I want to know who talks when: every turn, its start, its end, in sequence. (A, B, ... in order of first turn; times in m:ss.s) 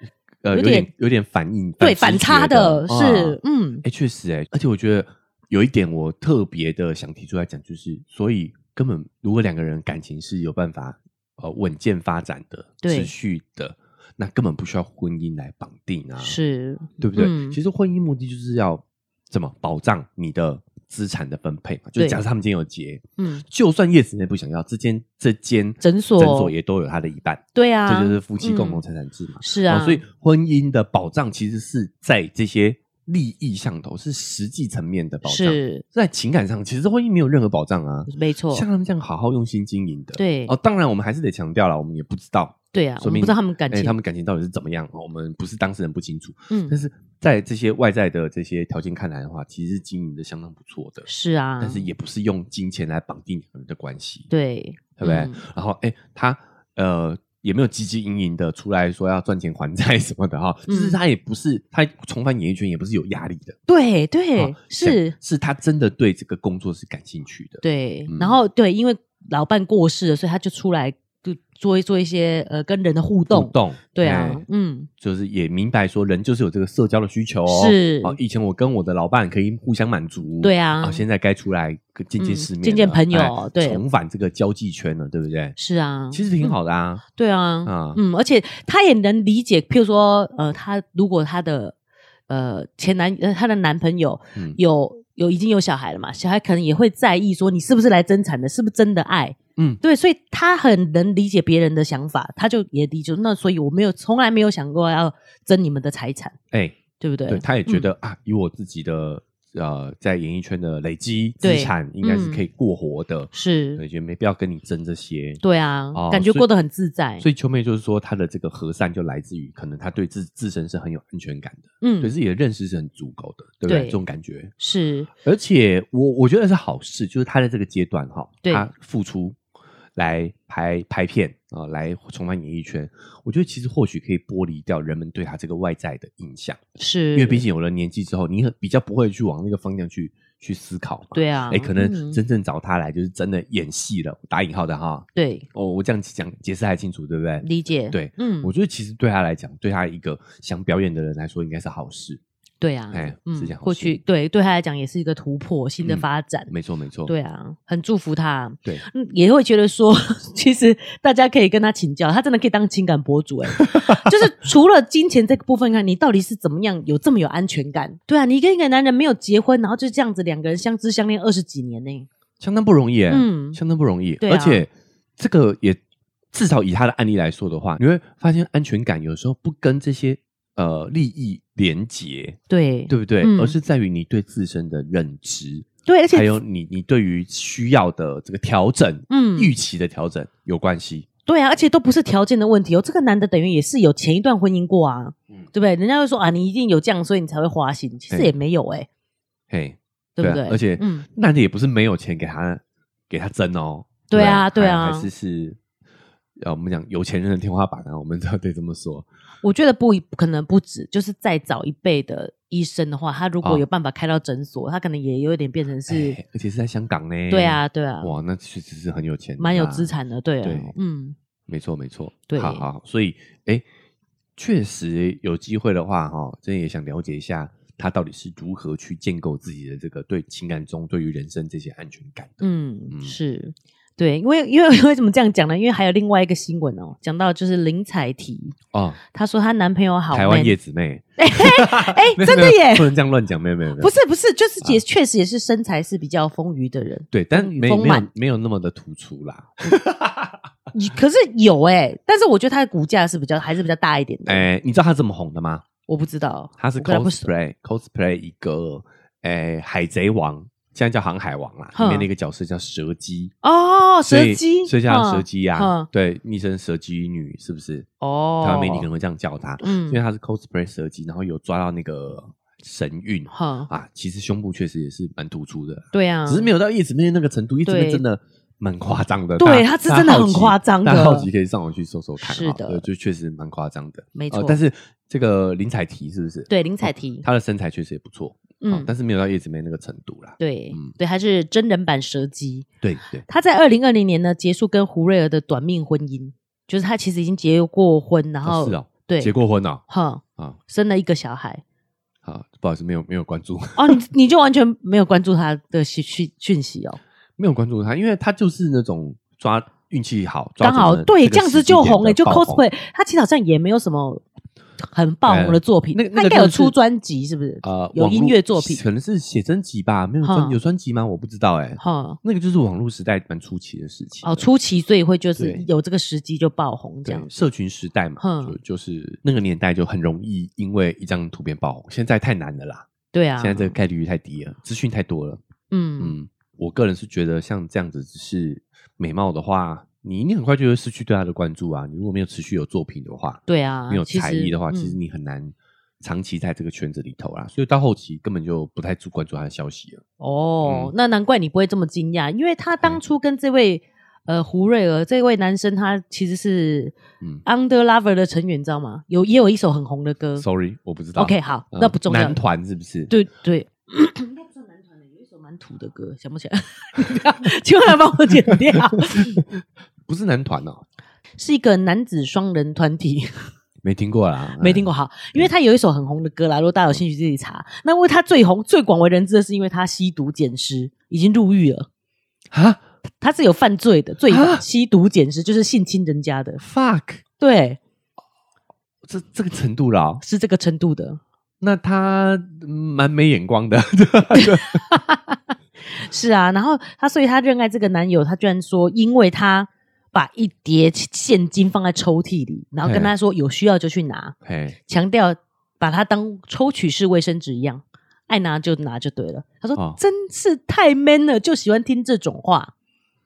0:00.4-0:16.4 A
0:00.5-0:00.9 B
0:01.8-0:03.8 B
0:12.8-0:13.1 B
0:16.2-0:17.6 B
0:17.0-0:51.1 A
0:23.2-0:23.4 B
0:25.8-0:26.5 B
0:27.5-0:28.8 B
0:29.4-0:30.0 B
0:35.2-0:35.8 B
0:38.1-0:38.6 B
0:40.2-0:40.5 B
0:42.7-0:43.9 B
0:46.5-0:46.8 B
0:51.0-0:51.8 B
0:51.6-0:54.3 A
0:54.3-0:55.4 B
0:55.0-1:03.6 A
1:00.7-1:01.0 B
1:03.7-1:05.2 B
1:04.4-1:08.4 A
1:07.6-1:14.9 B
1:13.3-1:14.4 A
1:15.0-1:25.5 A
1:17.5-1:18.2 B
1:20.4-1:21.0 B
1:22.2-1:23.8 B
1:25.6-1:26.6 B
1:26.1-1:27.0 A
1:27.1-1:31.7 B
1:27.6-1:28.0 A
1:32.3-1:46.3 B
1:46.5-1:55.4 A
1:47.0-1:47.9 B
1:51.4-1:52.5 B
1:53.3-1:53.8 B
1:55.4-1:57.2 B
1:55.9-1:56.5 A
1:57.2-2:04.5 A
2:01.8-2:02.1 B
2:03.6-2:04.0 B
2:04.6-2:05.1 B
2:05.2-2:09.4 A
2:08.4-2:08.7 B
2:10.0-2:32.2 A
2:16.8-2:17.4 B
2:21.1-2:22.2 B
2:25.1-2:25.4 B
2:27.4-2:28.5 B
2:32.6-2:36.5 B
2:32.9-2:34.0 A
2:35.8-2:37.1 A
2:37.1-2:52.1 B
2:43.5-2:44.2 A
2:52.4-2:55.8 A
2:53.1-2:53.6 B
2:54.2-2:54.6 B
2:56.3-3:11.1 A
3:02.5-3:03.6 B
3:05.8-3:06.4 B
3:09.1-3:09.5 B
3:11.3-3:18.9 B
3:19.5-3:25.6 A
3:20.2-3:21.0 B
3:24.1-3:25.1 B
3:26.4-3:29.1 A
3:29.4-3:36.2 B
3:35.9-3:39.9 A
3:37.3-3:38.1 B
3:39.4-3:41.2 B
3:40.4-3:40.7 A
3:41.5-3:43.6 A
3:42.3-3:42.6 B
3:44.4-3:53.2 A
3:52.4-3:58.6 B
3:58.7-3:59.0 A
3:59.1-4:00.5 B
4:00.1-4:03.9 A
4:01.2-4:02.9 B
4:03.8-4:08.1 B
4:07.1-4:10.4 A
4:10.7-4:14.4 B
4:14.2-4:15.6 A
4:15.9-4:17.3 B
4:16.6-4:23.3 A
4:21.7-4:22.1 B
4:23.4-4:25.9 B
4:24.0-4:27.9 A
4:28.0-4:28.9 B
4:28.4-4:50.9 A
4:29.6-4:30.0 B
4:33.3-4:33.7 B
4:35.9-4:36.5 B
4:37.6-4:38.0 B
4:39.4-4:41.3 B
4:42.2-4:42.8 B
4:44.1-4:44.6 B
4:46.5-4:47.2 B
4:48.6-4:48.9 B
4:50.4-4:52.7 B
4:52.8-4:53.2 A
4:53.3-4:59.3 B
4:58.4-4:59.8 A
4:59.9-5:01.6 B
5:02.2-5:04.0 A
5:03.8-5:07.0 B
5:07.4-5:12.6 A
5:10.6-5:14.2 B
5:14.8-5:18.8 B
5:15.3-5:16.8 A
5:17.6-5:24.5 A
5:20.2-5:20.6 B
5:21.8-5:22.2 B
5:24.2-5:27.3 B
5:25.4-5:25.6 A
5:27.0-5:32.9 A
5:28.2-5:28.5 B
5:33.1-5:33.8 B
5:33.4-5:35.4 A
5:35.7-5:36.2 B
5:36.0-5:50.0 A
5:43.5-5:45.0 B
5:50.2-6:00.4 B
5:50.6-5:50.9 A
6:00.4-6:03.1 A
6:01.2-6:02.4 B
6:03.1-6:09.4 B
6:08.7-6:09.4 A
6:10.1-6:10.8 A
6:11.4-6:13.3 B
6:13.8-6:15.5 A
6:14.6-6:21.9 B
6:22.5-6:22.8 A
6:23.2-6:26.6 B
6:24.3-6:24.6 A
6:26.6-6:27.2 A
6:27.4-6:27.8 B
6:29.1-6:30.2 A
6:30.2-6:31.2 B
6:31.6-6:34.8 A
6:34.3-6:35.4 B
6:35.9-6:44.3 B
6:42.8-6:43.1 A
6:44.4-6:44.8 A
6:44.8-6:52.7 B